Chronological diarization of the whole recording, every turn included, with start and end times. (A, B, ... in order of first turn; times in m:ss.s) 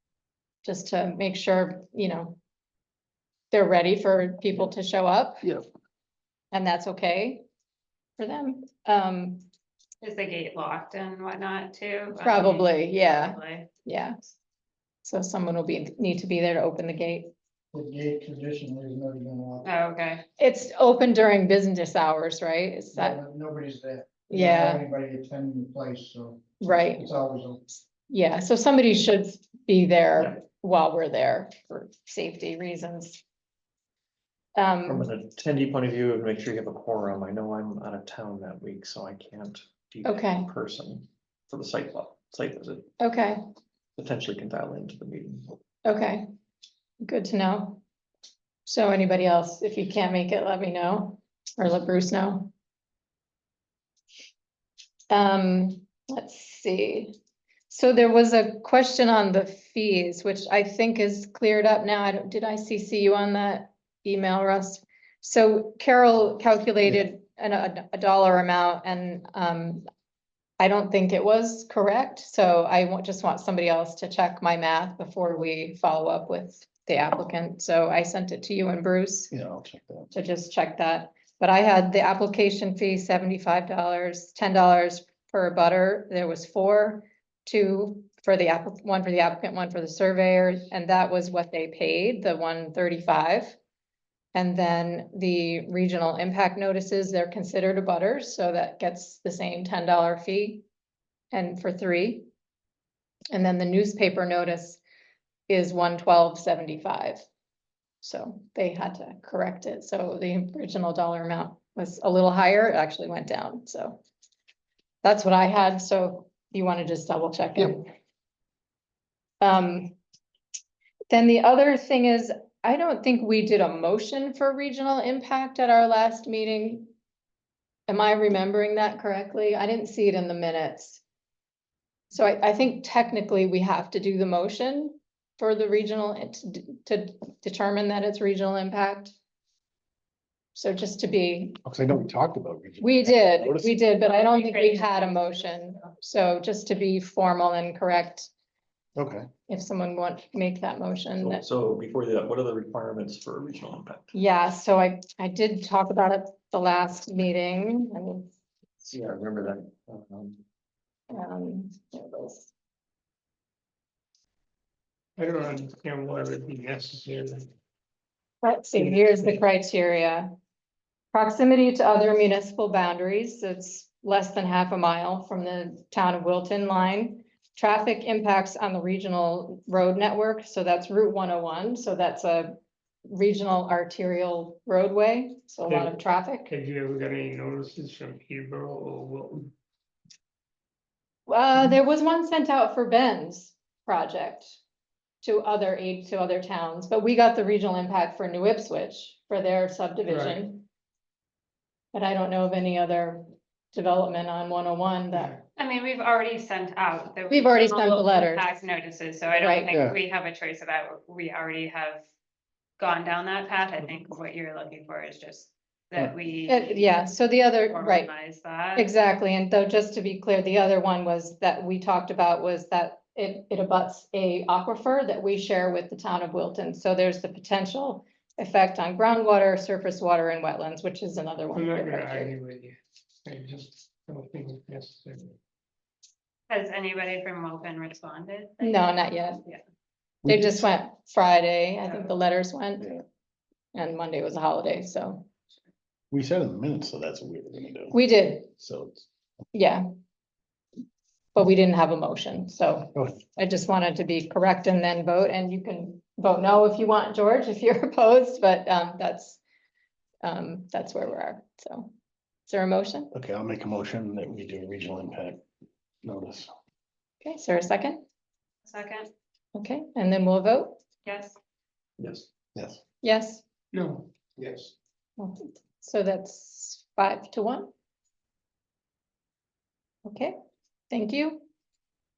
0:00.6-0:02.4 A
0:03.5-0:05.5 A
0:06.5-0:07.4 A
0:08.2-0:09.4 A
0:10.0-0:13.7 B
0:12.2-0:14.2 A
0:15.0-0:17.3 A
0:17.7-0:19.7 C
0:19.6-0:20.2 B
0:20.4-0:23.2 A
0:23.0-0:26.4 C
0:24.3-0:24.8 A
0:26.6-0:27.1 A
0:27.0-0:27.6 C
0:28.1-0:33.2 A
0:34.6-0:35.1 A
0:34.9-0:42.9 D
0:40.0-0:40.5 A
0:43.0-0:43.4 A
0:44.0-0:45.6 D
0:45.8-0:46.3 A
0:47.0-0:47.8 A
0:48.7-0:52.5 A
0:55.1-0:57.2 A
0:57.7-1:09.8 A
1:10.6-1:19.3 A
1:19.3-1:20.1 E
1:20.1-1:33.6 A
1:34.3-1:40.6 A
1:41.3-1:42.3 A
1:43.3-1:44.8 A
1:45.5-1:47.2 A
1:48.0-1:54.0 A
1:55.0-1:57.9 A
1:59.4-1:59.9 A
2:01.1-2:06.9 A
2:07.9-2:11.0 A
2:12.1-2:19.2 A
2:20.6-2:21.6 A
2:21.6-2:23.7 E
2:22.8-2:28.3 A
2:24.1-2:25.6 B
2:29.0-2:29.3 E
2:29.5-2:31.4 A
2:31.2-2:34.1 D
2:34.1-2:38.3 A
2:38.8-2:40.4 D
2:41.1-2:42.5 A
2:45.2-2:47.5 F
2:48.4-2:50.3 A
2:48.8-2:49.2 F
2:51.1-3:06.5 A
3:05.7-3:09.5 F
3:11.3-3:14.6 A
3:15.2-3:20.6 A
3:20.1-3:20.4 F
3:21.9-3:25.4 A
3:25.1-3:25.4 F
3:25.6-3:32.0 B
3:27.3-3:28.5 A
3:29.4-3:29.7 A
3:29.7-3:30.0 E
3:32.8-3:36.8 B
3:36.5-3:38.1 A
3:37.7-3:38.9 B
3:38.8-3:52.3 A
3:51.5-3:55.4 F
3:56.5-3:59.6 B
3:58.6-3:59.4 A
4:00.2-4:00.6 E
4:00.3-4:02.9 A
4:03.7-4:05.3 A
4:06.1-4:08.0 E
4:07.9-4:08.5 A
4:08.5-4:09.1 E
4:09.5-4:09.8 A
4:11.4-4:19.4 A
4:13.0-4:13.2 E
4:20.2-4:21.9 A
4:22.5-4:23.1 A
4:23.1-4:25.4 E
4:26.0-4:26.5 E
4:27.2-4:28.0 A
4:28.6-4:29.1 B
4:29.6-4:30.8 A
4:31.0-4:31.4 B
4:32.0-4:32.3 D
4:32.6-4:32.8 E
4:33.0-4:33.4 A
4:33.7-4:34.7 F
4:35.2-4:37.7 A
4:40.0-4:40.4 A
4:40.9-4:41.4 A